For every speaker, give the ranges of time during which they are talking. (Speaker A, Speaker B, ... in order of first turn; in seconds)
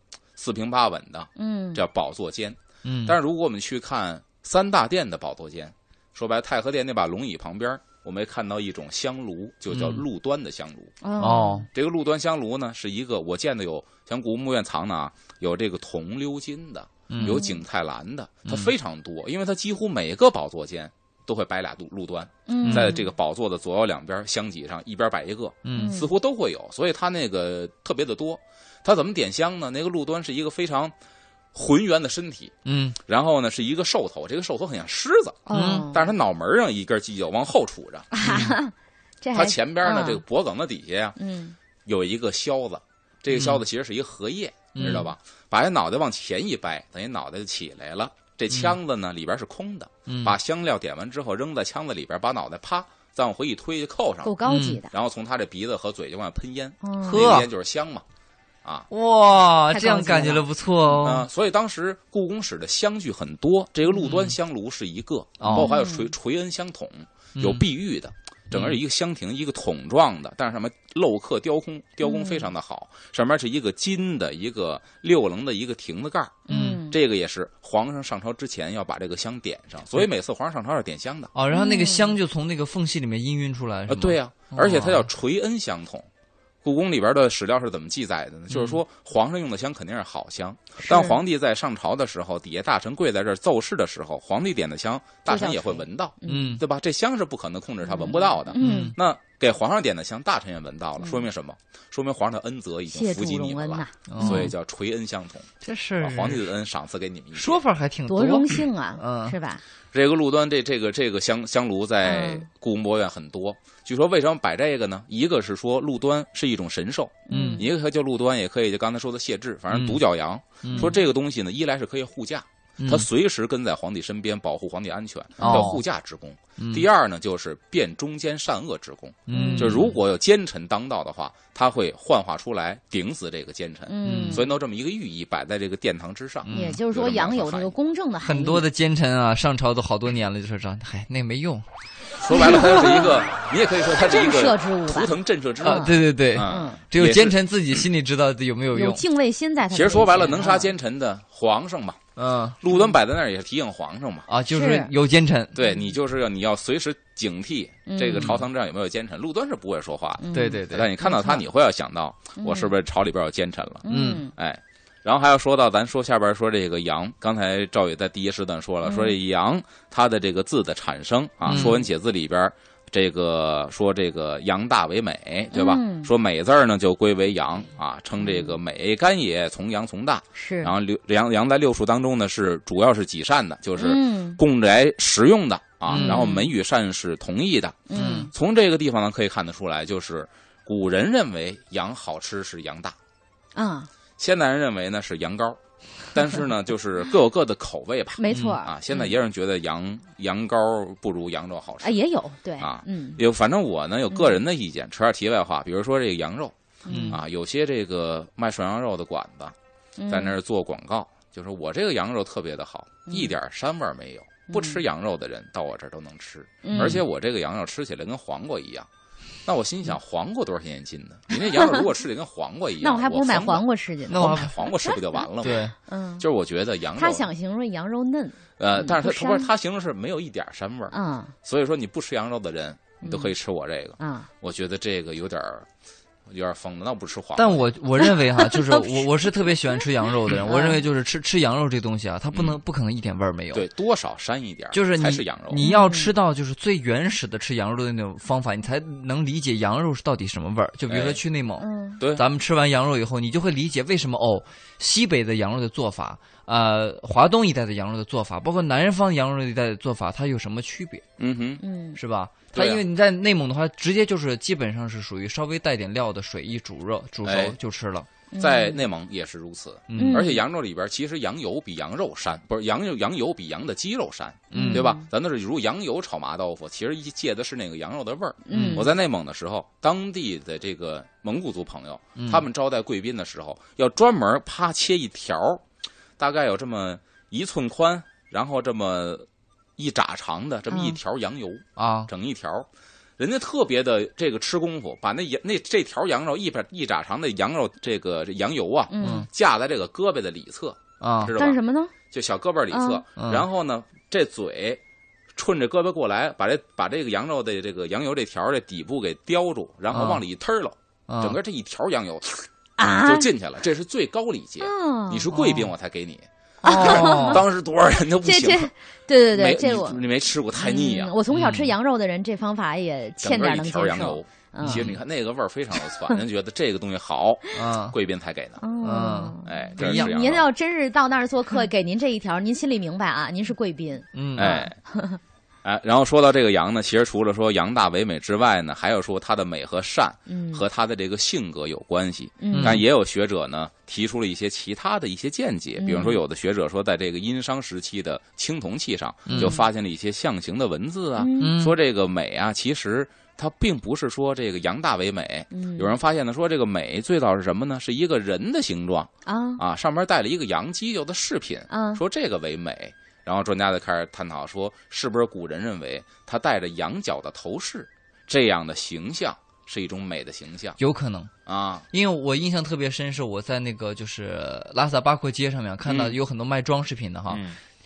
Speaker A: 0.3-11.0, 11.7-30.9, 31.5-38.1, 39.3-41.2, 41.8-54.4, 54.9-58.0, 61.0-81.3, 83.9-86.1, 86.6-107.6, 109.9-137.7, 142.2-147.8, 149.7-152.0, 152.6-154.3, 155.5-192.9, 194.2-195.6, 196.1-202.0, 202.6-206.5, 207.1-209.5, 210.1-218.9, 219.4-227.3, 228.6-235.7, 236.3-237.7, 242.3-242.6, 243.5-245.7, 250.9-251.2, 252.0-252.2, 261.2-261.6, 262.5-262.8, 267.2-267.6, 268.4-285.6, 286.2-301.6, 302.1-304.8, 305.3-318.7, 319.3-321.1, 323.2-328.6, 329.4-330.4, 334.4-334.7, 335.6-370.8, 371.4-371.9, 375.8-376.2, 377.3-377.6
Speaker B: 1.4-1.8, 11.0-11.7, 17.2-17.6, 22.5-23.0, 25.7-26.1, 35.5-36.1, 38.1-40.2, 41.2-41.5, 54.2-54.9, 56.8-57.3, 59.7-60.5, 65.5-66.1, 72.0-72.5, 76.5-77.0, 81.5-82.2, 90.8-91.2, 95.3-96.6, 97.8-98.9, 102.9-104.5, 108.1-109.6, 112.0-112.5, 117.3-117.7, 125.4-125.7, 129.3-129.8, 133.9-134.5, 136.5-138.7, 142.3-143.2, 144.0-146.8, 148.7-150.7, 154.5-154.9, 157.9-158.4, 160.2-161.4, 162.4-162.7, 163.8-164.3, 168.8-169.2, 171.5-171.8, 175.5-176.1, 178.2-178.6, 180.3-180.7, 183.8-184.4, 185.9-186.5, 187.9-188.3, 193.5-193.9, 198.2-199.1, 201.8-203.2, 206.8-207.2, 210.0-210.3, 213.1-213.3, 214.5-214.8, 216.6-217.0, 221.3-221.8, 222.8-225.2, 225.9-226.2, 226.9-229.5, 230.9-231.3, 233.0-233.3, 234.0-234.3, 238.4-239.0, 240.4-240.8, 245.6-246.1, 251.6-252.0, 261.6-262.0, 268.3-268.8, 270.0-270.4, 274.5-275.0, 278.4-278.9, 290.7-291.0, 298.9-299.3, 301.3-301.9, 302.7-303.0, 312.8-313.3, 314.6-315.4, 316.6-317.4, 318.2-320.0, 320.5-324.9, 325.8-326.2, 328.6-335.2, 340.3-340.6, 342.4-342.8, 345.8-346.2, 349.3-349.6, 351.2-351.6, 355.5-355.9, 359.2-359.6, 361.7-362.0
Speaker C: 2.8-3.1, 9.7-10.0, 11.2-11.7, 17.1-17.4, 18.5-18.7, 22.6-22.9, 25.6-25.9, 32.6-33.0, 35.5-35.9, 38.2-38.5, 43.3-43.6, 44.7-45.1, 50.1-50.3, 54.4-54.8, 57.0-57.5, 58.9-61.3, 64.0-64.3, 65.4-65.7, 67.3-67.6, 68.5-68.8, 76.5-76.8, 81.3-85.1, 88.5-88.8, 96.3-96.6, 98.6-99.0, 104.1-104.5, 105.6-106.4, 107.3-109.3, 117.3-117.6, 119.7-120.0, 120.6-120.9, 122.8-123.0, 125.4-125.8, 126.6-126.8, 129.3-130.0, 134.0-134.4, 136.4-136.8, 138.2-141.6, 142.3-142.8, 145.6-149.0, 152.2-152.6, 154.3-155.6, 158.2-158.4, 160.3-160.9, 163.9-164.2, 171.5-171.8, 185.9-186.2, 187.9-188.3, 198.3-198.6, 206.9-207.2, 216.7-217.0, 224.1-224.5, 225.4-225.7, 237.3-243.7, 244.7-261.0, 261.9-268.1, 269.9-270.2, 274.5-274.9, 278.5-278.9, 282.1-282.4, 291.8-292.1, 299.0-299.3, 301.0-301.3, 303.2-303.4, 309.9-310.2, 311.1-311.4, 315.3-315.7, 316.6-317.4, 321.3-321.7, 324.6-324.9, 327.5-327.9, 328.8-330.1, 334.1-334.6, 342.5-342.8, 349.3-349.6, 351.4-351.7, 370.8-371.3, 371.9-377.5